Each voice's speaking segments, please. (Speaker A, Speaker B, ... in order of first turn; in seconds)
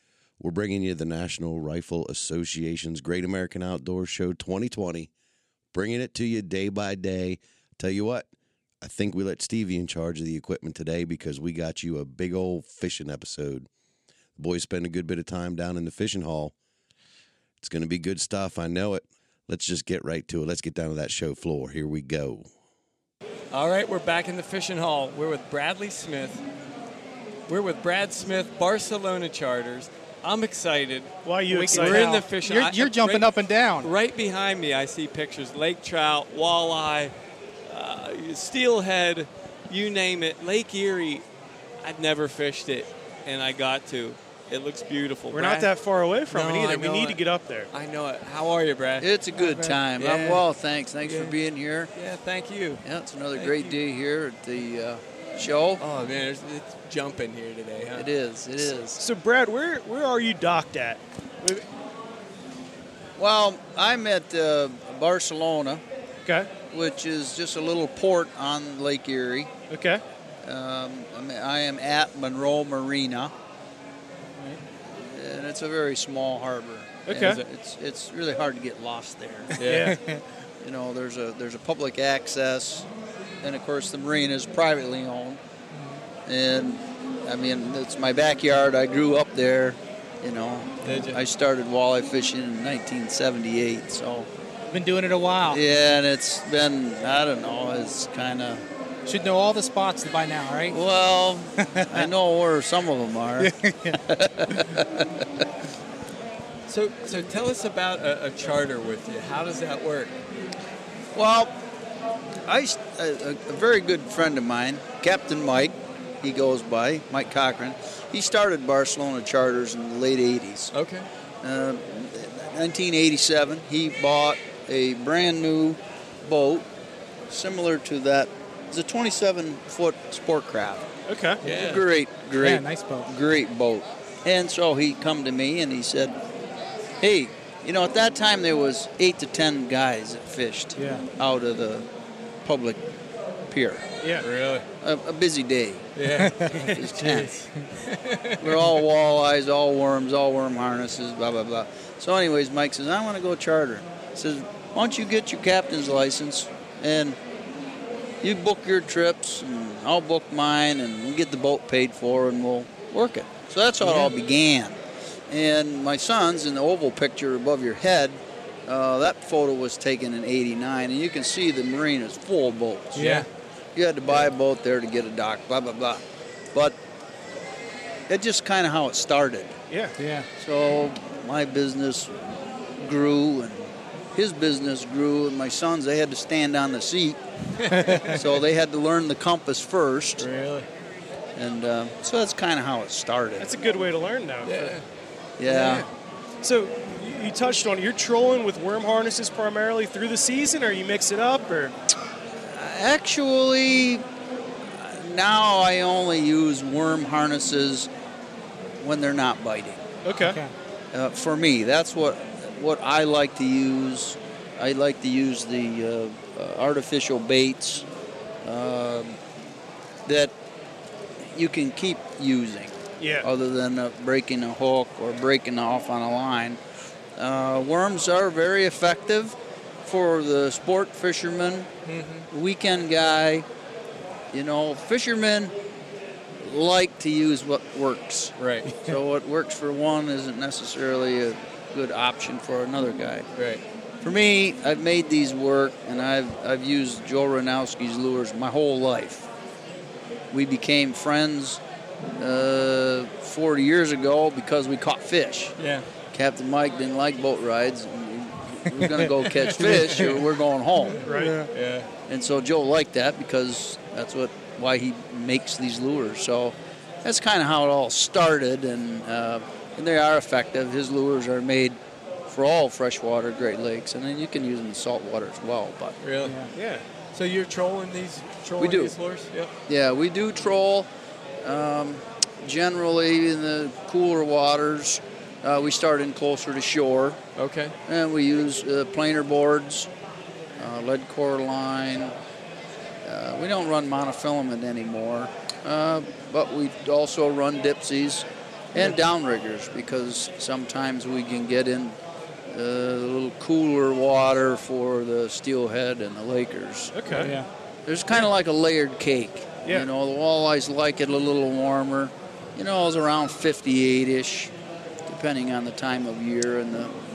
Speaker A: 0.4-5.1, 5.7-8.3, 8.8-13.7, 14.4-16.5, 17.6-22.5
Speaker B: 23.5-26.4, 27.5-31.1, 31.7-33.3, 33.8-37.1, 37.6-41.2, 41.8-45.7, 46.3-47.2, 47.7-50.4, 51.0-51.4, 51.9-52.8, 53.3-53.8, 55.8-58.1, 77.1-77.4, 79.6-80.0, 90.8-91.2, 106.7-110.1, 120.7-121.1, 131.4-131.8, 144.2-144.6, 145.9-146.4, 146.9-148.7, 187.6-188.2, 190.2-190.7, 194.4-194.8, 195.4-195.9, 231.8-232.2, 238.4-238.7, 243.3-243.6, 255.6-255.8, 259.6-260.2, 261.5-261.9, 276.0-276.3, 277.1-279.5, 287.4-287.7
Speaker C: 31.2-32.2, 45.3-47.7, 59.0-61.6, 66.2-66.5, 69.7-70.0, 77.0-77.4, 79.6-80.0, 131.1-131.4, 179.7-179.9, 193.4-194.8, 196.4-201.7, 210.0-210.4, 223.0-223.3, 261.0-261.4, 276.5-276.8, 306.9-307.4
Speaker D: 31.5-33.9, 79.8-80.2, 85.7-86.0, 94.7-95.6, 99.0-100.8, 101.7-102.1, 103.4-104.0, 132.4-133.1, 140.8-141.0, 146.1-146.7, 172.9-173.3, 180.0-180.3, 187.7-188.1, 210.2-210.5, 259.6-260.1, 261.1-261.5, 276.2-276.5, 307.1-307.4
Speaker E: 49.0-51.9, 52.8-55.8, 57.9-59.0, 63.2-65.8, 66.7-69.5, 70.4-73.3, 74.9-79.6, 80.6-82.9, 83.4-85.4, 86.2-94.3, 95.5-98.6, 100.7-105.0, 111.1-111.5, 112.5-120.7, 121.4-126.7, 127.3-130.9, 131.4-136.1, 137.0-141.8, 142.4-142.8, 143.5-143.9, 144.8-145.8, 146.6-147.3, 148.4-157.2, 158.2-164.8, 165.3-173.2, 173.7-176.8, 178.1-179.6, 180.4-182.2, 182.8-187.2, 188.0-190.2, 191.3-193.5, 195.4-195.8, 202.5-204.0, 204.8-207.9, 208.8-209.8, 210.9-217.8, 218.4-219.2, 220.1-220.3, 221.2-226.6, 227.2-231.7, 232.3-233.4, 234.3-235.5, 236.4-243.3, 244.0-249.3, 250.3-255.5, 256.1-261.0, 262.1-276.0, 278.6-278.9, 279.7-280.9, 281.4-287.2, 287.9-289.9, 290.6-292.1, 293.0-302.0, 302.5-307.3, 307.9-314.5, 315.1-316.9